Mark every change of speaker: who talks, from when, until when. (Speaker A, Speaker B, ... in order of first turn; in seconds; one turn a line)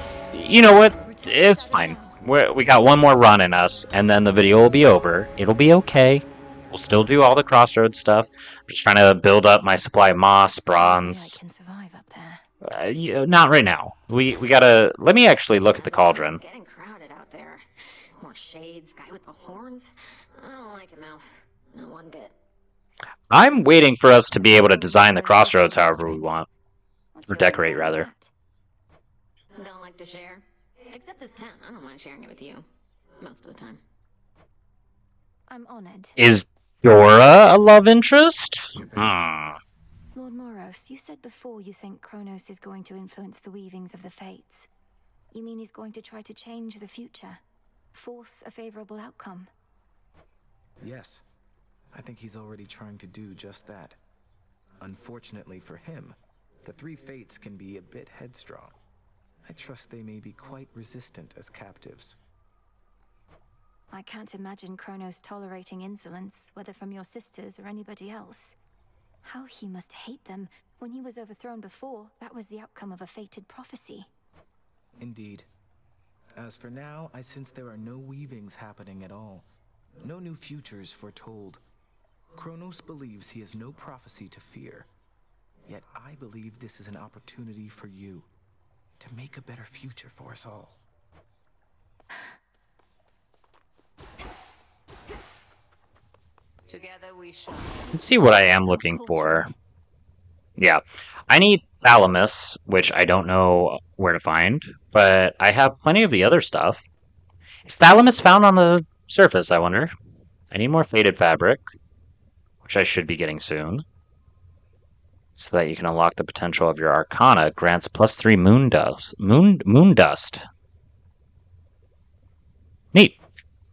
Speaker A: 0.3-11.4
Speaker B: 1.0-2.2
Speaker B: 10.5-12.4
Speaker A: 12.6-16.4
Speaker B: 15.7-16.3
Speaker C: 16.3-17.6
Speaker C: 18.2-22.3
Speaker A: 23.3-26.5
Speaker B: 24.4-26.4
Speaker B: 27.1-28.3
Speaker A: 27.2-28.1
Speaker C: 29.6-32.6
Speaker C: 33.2-33.8
Speaker B: 35.5-36.1
Speaker A: 36.2-39.6
Speaker B: 40.1-44.7
Speaker B: 45.3-47.4
Speaker B: 47.9-49.5
Speaker D: 50.8-51.2
Speaker D: 51.9-54.0
Speaker D: 54.8-58.7
Speaker D: 59.4-62.2
Speaker B: 63.9-68.5
Speaker B: 69.2-74.1
Speaker D: 75.0-75.5
Speaker D: 76.4-79.5
Speaker D: 80.0-81.6
Speaker D: 82.3-84.9
Speaker D: 85.7-88.3
Speaker D: 89.0-90.8
Speaker C: 96.7-97.9
Speaker A: 97.9-99.5
Speaker B: 98.1-99.5
Speaker A: 100.6-106.9
Speaker A: 107.6-109.9
Speaker A: 110.5-111.7
Speaker A: 112.6-113.8
Speaker A: 115.4-120.4
Speaker A: 122.9-123.2